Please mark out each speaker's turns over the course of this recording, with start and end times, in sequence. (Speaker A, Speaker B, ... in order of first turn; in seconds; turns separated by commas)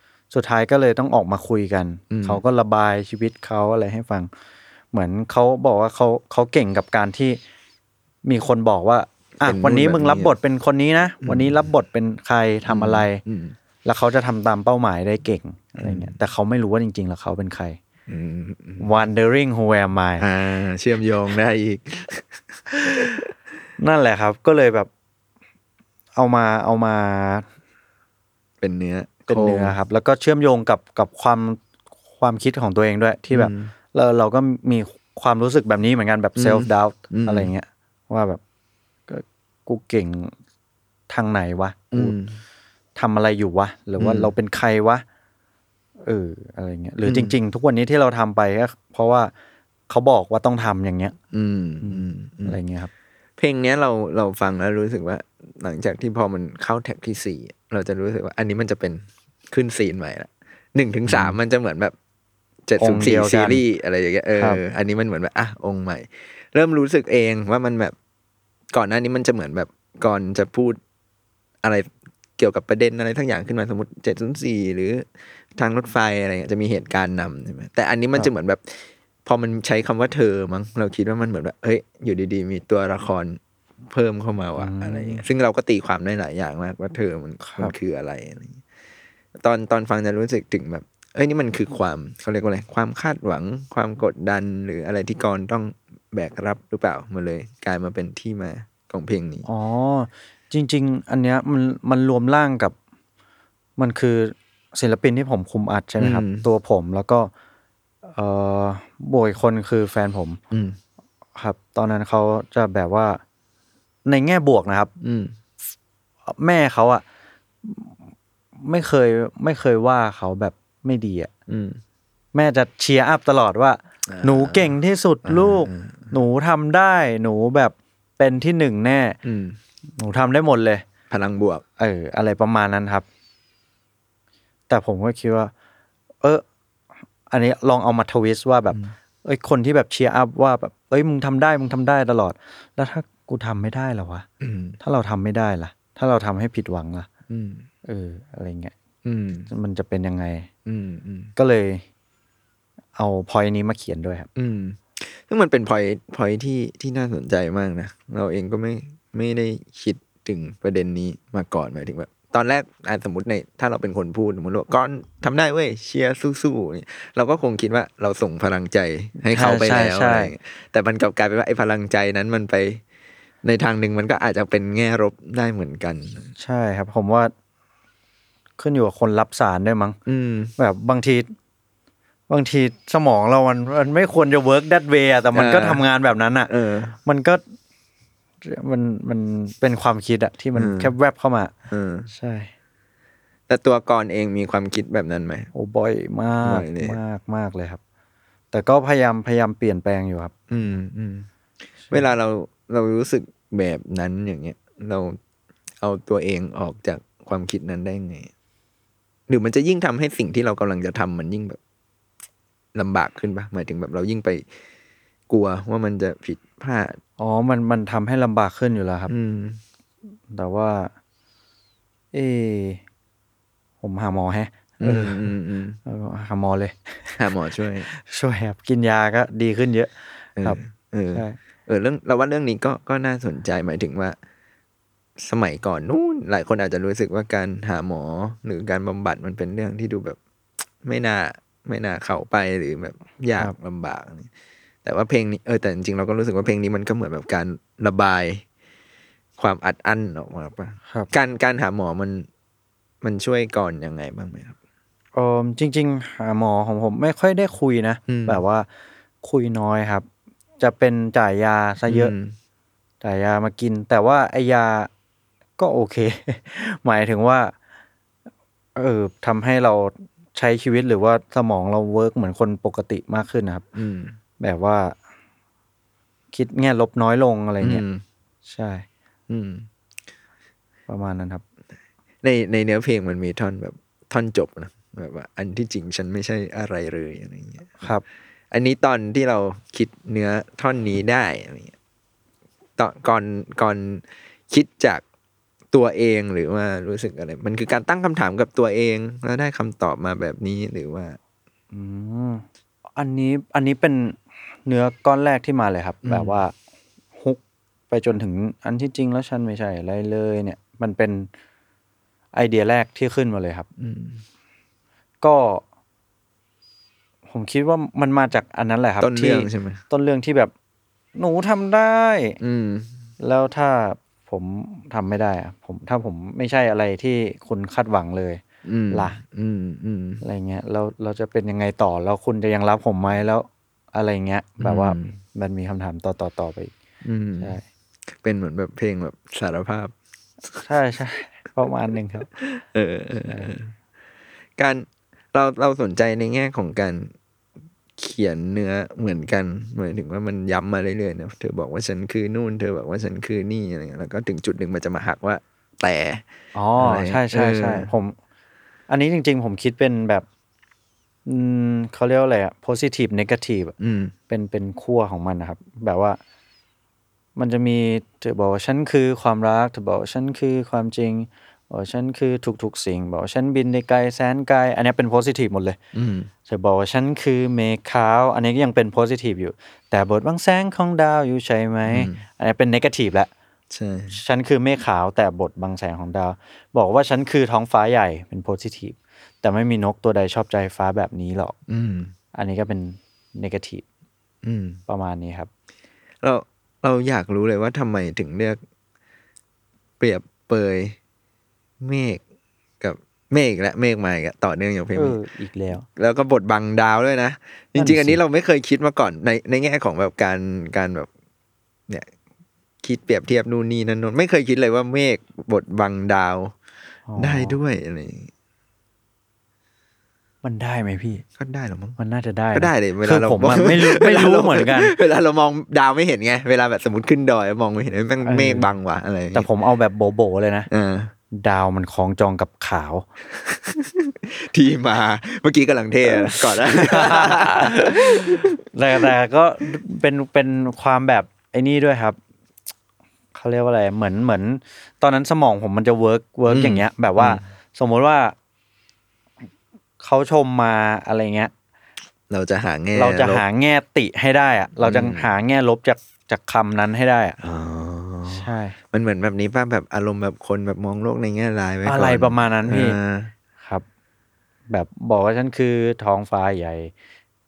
Speaker A: 0.3-4.3, Speaker B: 2.1-2.4, Speaker A: 4.9-7.4, Speaker A: 8.2-13.2, Speaker B: 9.4-10.3, Speaker B: 11.2-11.7, Speaker B: 12.7-13.5, Speaker A: 13.8-17.8, Speaker B: 15.8-16.2, Speaker B: 18.1-18.9, Speaker A: 18.8-20.2, Speaker B: 20.2-23.3, Speaker A: 23.8-24.9, Speaker A: 26.1-27.4, Speaker B: 28.6-29.8, Speaker A: 29.3-31.6, Speaker A: 32.2-38.4, Speaker B: 33.3-33.7, Speaker B: 36.4-37.5, Speaker A: 39.1-40.3, Speaker A: 41.1-42.1, Speaker B: 41.9-42.4, Speaker A: 43.0-45.0, Speaker B: 44.0-44.3, Speaker A: 46.0-49.3, Speaker B: 47.0-47.4, Speaker A: 49.9-51.1, Speaker B: 51.3-52.6, Speaker A: 51.8-52.9, Speaker B: 53.4-61.9, Speaker A: 61.1-61.4, Speaker B: 62.6-67.9, Speaker A: 62.8-63.6, Speaker B: 68.7-70.8, Speaker B: 71.6-88.6, Speaker A: 84.6-85.2, Speaker A: 87.4-87.7, Speaker B: 89.4-99.5, Speaker A: 99.5-102.7, Speaker A: 103.8-107.3, Speaker B: 106.0-106.5, Speaker A: 108.1-110.4, Speaker B: 110.5-110.8, Speaker A: 111.4-113.2, Speaker A: 114.1-114.9, Speaker B: 115.0-115.3, Speaker A: 116.3-117.0, Speaker A: 117.6-118.0, Speaker A: 118.6-121.3, Speaker B: 121.5-121.8, Speaker A: 122.3-129.2, Speaker B: 124.1-126.1, Speaker B: 129.2-129.6, Speaker A: 130.0-130.8, Speaker B: 131.1-131.6, Speaker A: 131.8-133.0, Speaker A: 134.7-135.5, Speaker A: 137.3-144.2, Speaker B: 144.4-144.8, Speaker A: 144.8-147.1, Speaker B: 147.3-147.7, Speaker A: 147.8-148.7, Speaker B: 149.0-149.5, Speaker A: 149.5-150.5, Speaker B: 150.7-151.3, Speaker A: 151.3-151.8, Speaker A: 152.9-154.3, Speaker B: 154.3-172.8, Speaker A: 169.2-170.3, Speaker B: 173.4-176.3, Speaker A: 176.4-177.3, Speaker A: 178.6-180.0, Speaker B: 180.1-180.5, Speaker A: 180.6-181.3, Speaker A: 182.3-186.5, Speaker B: 185.3-185.8, Speaker B: 186.5-187.0, Speaker A: 187.0-187.4, Speaker A: 188.4-191.5, Speaker B: 190.6-190.9, Speaker B: 191.7-192.1, Speaker A: 192.1-192.5, Speaker B: 193.5-195.5, Speaker A: 195.5-197.8, Speaker B: 196.4-197.0, Speaker A: 198.5-200.3, Speaker B: 200.5-201.3, Speaker B: 201.9-205.2, Speaker B: 205.8-208.3, Speaker B: 209.3-211.6, Speaker B: 212.7-214.5, Speaker B: 215.3-217.0, Speaker A: 217.2-219.1, Speaker B: 219.1-219.6, Speaker A: 220.3-220.9, Speaker A: 222.1-222.8, Speaker A: 223.8-225.3, Speaker B: 224.8-225.8, Speaker A: 225.8-227.2, Speaker B: 227.2-227.9, Speaker A: 227.9-230.6, Speaker B: 230.4-234.2, Speaker A: 231.1-231.4, Speaker B: 235.2-240.2, Speaker B: 240.8-244.3, Speaker B: 244.8-248.4, Speaker B: 249.4-252.3, Speaker B: 253.0-254.6, Speaker A: 255.1-258.6, Speaker B: 258.1-258.4, Speaker A: 259.2-260.1, Speaker A: 260.6-262.1, Speaker B: 261.9-262.4, Speaker A: 263.0-264.9, Speaker A: 265.6-267.5, Speaker A: 268.8-273.6, Speaker B: 273.7-274.1, Speaker A: 274.4-274.9, Speaker A: 276.3-277.8, Speaker B: 277.6-278.0, Speaker A: 278.5-278.9, Speaker B: 279.3-279.7, Speaker A: 280.9-281.4, Speaker B: 282.2-287.9, Speaker B: 288.5-291.7, Speaker B: 292.8-295.0, Speaker B: 295.7-301.2, Speaker A: 301.7-302.4, Speaker A: 303.0-306.5, Speaker B: 306.0-306.4, Speaker A: 307.1-311.3, Speaker A: 312.3-313.7, Speaker B: 313.8-314.2, Speaker A: 315.2-315.6, Speaker A: 317.3-320.5, Speaker B: 319.0-319.8, Speaker A: 321.1-322.4, Speaker B: 322.4-323.0, Speaker A: 323.2-329.2, Speaker B: 328.6-330.2, Speaker A: 330.2-336.7, Speaker B: 334.6-335.2, Speaker B: 337.0-337.6, Speaker A: 337.4-337.6, Speaker B: 338.1-339.9, Speaker A: 340.6-342.3, Speaker B: 342.4-343.7, Speaker A: 343.2-343.6, Speaker B: 344.6-347.1, Speaker B: 348.0-356.2, Speaker A: 356.5-358.1, Speaker B: 356.8-357.9, Speaker A: 358.9-360.2, Speaker A: 361.2-363.7, Speaker B: 363.8-364.1, Speaker A: 364.3-366.2, Speaker A: 367.4-375.8, Speaker B: 375.9-376.3, Speaker A: 376.5-383.3, Speaker B: 381.9-382.2, Speaker B: 383.7-384.2, Speaker A: 384.1-391.6, Speaker B: 391.7-392.1, Speaker A: 392.3-393.8, Speaker B: 394.4-394.8, Speaker A: 394.9-395.5, Speaker B: 396.2-398.6, Speaker B: 400.0-400.9, Speaker B: 401.8-402.2, Speaker B: 402.8-405.2, Speaker A: 404.9-405.9, Speaker B: 405.9-411.1, Speaker A: 407.8-408.2, Speaker B: 412.8-416.5, Speaker A: 417.1-417.6, Speaker B: 417.2-418.3, Speaker A: 420.4-421.2, Speaker B: 421.4-422.0, Speaker A: 422.0-424.9, Speaker B: 422.5-429.5, Speaker A: 428.2-428.7, Speaker A: 429.3-430.7, Speaker B: 430.7-431.1, Speaker A: 431.3-433.1, Speaker B: 433.4-439.1, Speaker A: 436.1-442.2, Speaker A: 443.3-448.3, Speaker B: 446.5-447.4, Speaker A: 450.0-451.5, Speaker B: 452.3-453.4, Speaker A: 452.9-457.4, Speaker B: 454.8-455.3, Speaker B: 457.4-463.3, Speaker A: 458.3-458.8, Speaker A: 461.8-463.0, Speaker A: 464.7-466.9